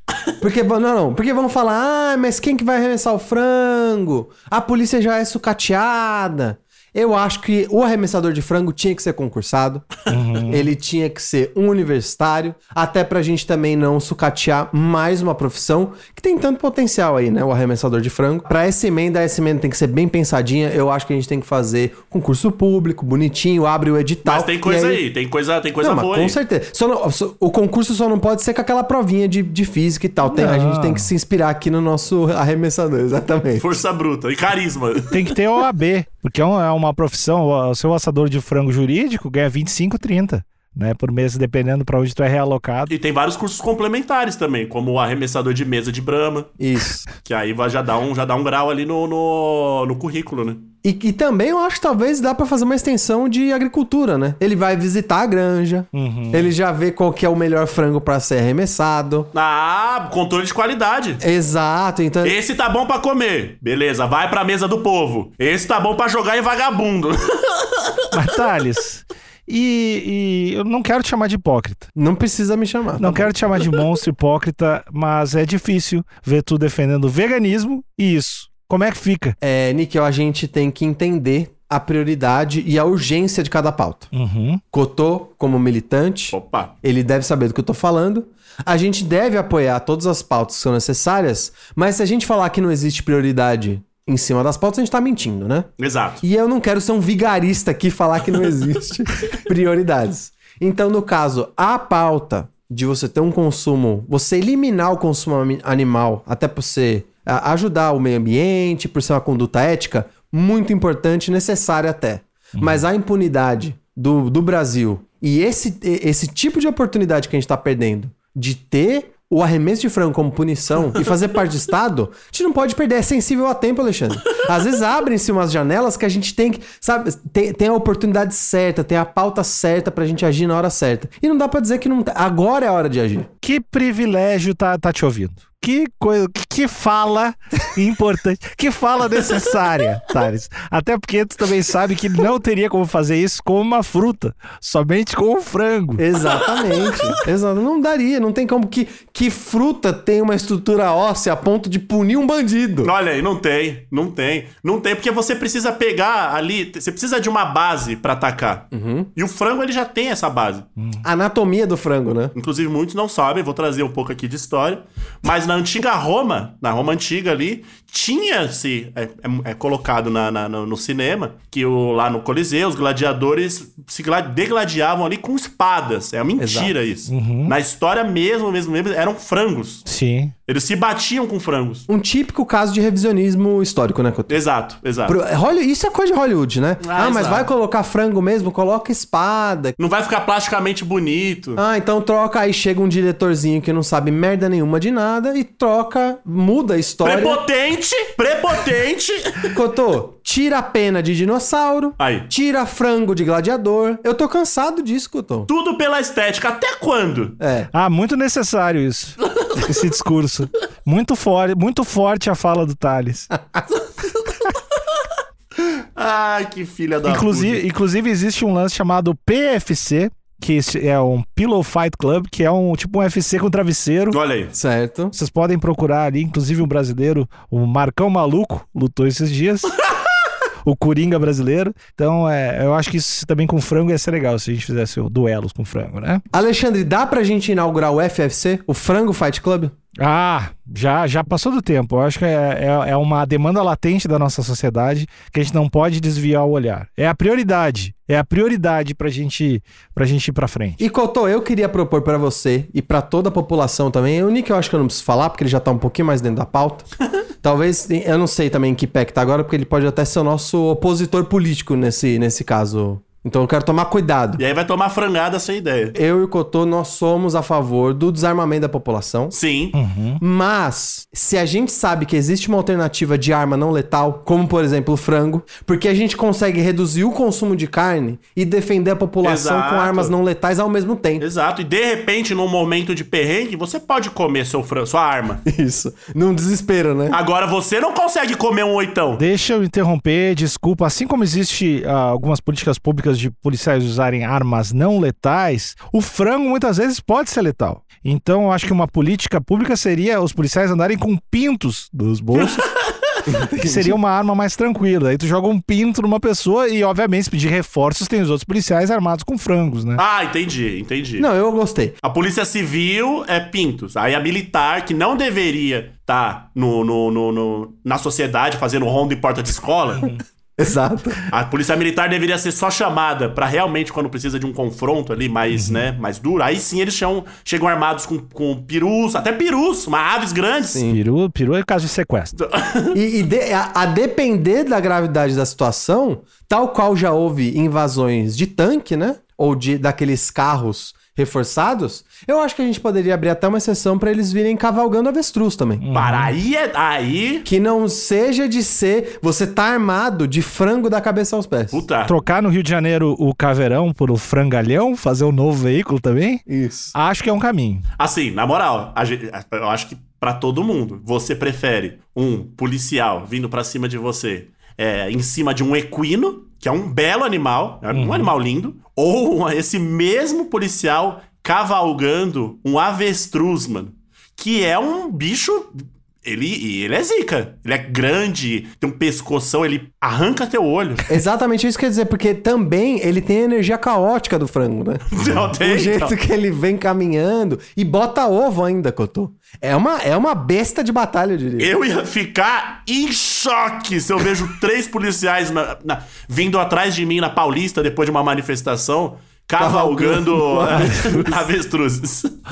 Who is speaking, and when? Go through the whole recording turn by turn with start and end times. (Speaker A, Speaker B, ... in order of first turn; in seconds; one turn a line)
Speaker A: 0.4-9.9
Speaker B: 10.1-10.7
Speaker A: 10.4-25.0
Speaker C: 24.2-26.4
Speaker A: 25.8-33.8
Speaker B: 30.2-31.1
Speaker C: 33.6-35.2
Speaker B: 35.1-42.9
Speaker C: 42.9-46.5
Speaker A: 46.6-47.0
Speaker C: 47.2-50.7
Speaker A: 50.8-59.3
Speaker B: 55.9-56.5
Speaker C: 59.3-61.2
Speaker A: 61.2-62.4
Speaker C: 62.2-67.9
Speaker B: 68.1-71.9
Speaker A: 71.9-73.3
Speaker B: 73.0-79.3
Speaker A: 79.4-84.1
Speaker B: 84.1-84.6
Speaker A: 84.7-95.7
Speaker C: 86.3-86.7
Speaker C: 95.8-96.2
Speaker A: 96.2-133.3
Speaker B: 112.6-112.8
Speaker B: 133.4-146.1
Speaker A: 146.0-152.9
Speaker C: 152.8-160.7
Speaker A: 158.7-159.1
Speaker B: 160.8-161.0
Speaker A: 161.0-162.3
Speaker C: 162.3-179.8
Speaker A: 176.4-176.7
Speaker B: 177.1-177.5
Speaker B: 179.8-180.3
Speaker C: 180.5-181.9
Speaker A: 181.9-184.4
Speaker C: 184.3-185.2
Speaker A: 185.1-189.8
Speaker C: 186.8-187.5
Speaker C: 189.8-191.6
Speaker A: 191.6-197.4
Speaker C: 197.0-199.5
Speaker A: 199.4-205.5
Speaker C: 202.0-202.3
Speaker C: 205.5-207.4
Speaker A: 207.4-207.7
Speaker B: 207.7-213.3
Speaker C: 215.6-217.6
Speaker B: 217.0-224.2
Speaker C: 224.1-224.5
Speaker A: 224.5-225.1
Speaker B: 225.1-229.7
Speaker B: 230.6-236.2
Speaker A: 236.3-239.7
Speaker B: 240.0-250.8
Speaker A: 250.8-256.9
Speaker A: 257.4-264.4
Speaker C: 264.4-265.9
Speaker A: 265.9-269.3
Speaker C: 269.3-269.8
Speaker B: 269.7-270.2
Speaker A: 270.2-281.2
Speaker C: 279.2-280.1
Speaker C: 281.2-285.4
Speaker A: 285.4-287.2
Speaker C: 287.1-289.2
Speaker B: 289.2-302.6
Speaker C: 302.3-303.2
Speaker A: 303.2-304.0
Speaker B: 303.6-310.0
Speaker C: 310.0-311.3
Speaker A: 311.2-311.9
Speaker C: 312.0-320.1
Speaker A: 320.6-321.2
Speaker C: 321.3-330.8
Speaker B: 325.5-325.9
Speaker A: 330.7-331.0
Speaker B: 330.8-332.3
Speaker C: 332.4-333.0
Speaker A: 332.9-345.8
Speaker B: 345.8-346.3
Speaker C: 345.9-347.4
Speaker A: 347.4-351.8
Speaker C: 351.7-352.1
Speaker B: 352.1-356.4
Speaker A: 356.5-356.9
Speaker B: 356.9-357.8
Speaker C: 358.0-381.1
Speaker B: 367.9-368.3
Speaker A: 381.1-391.7
Speaker C: 385.1-386.1
Speaker C: 391.6-402.3
Speaker A: 399.6-401.5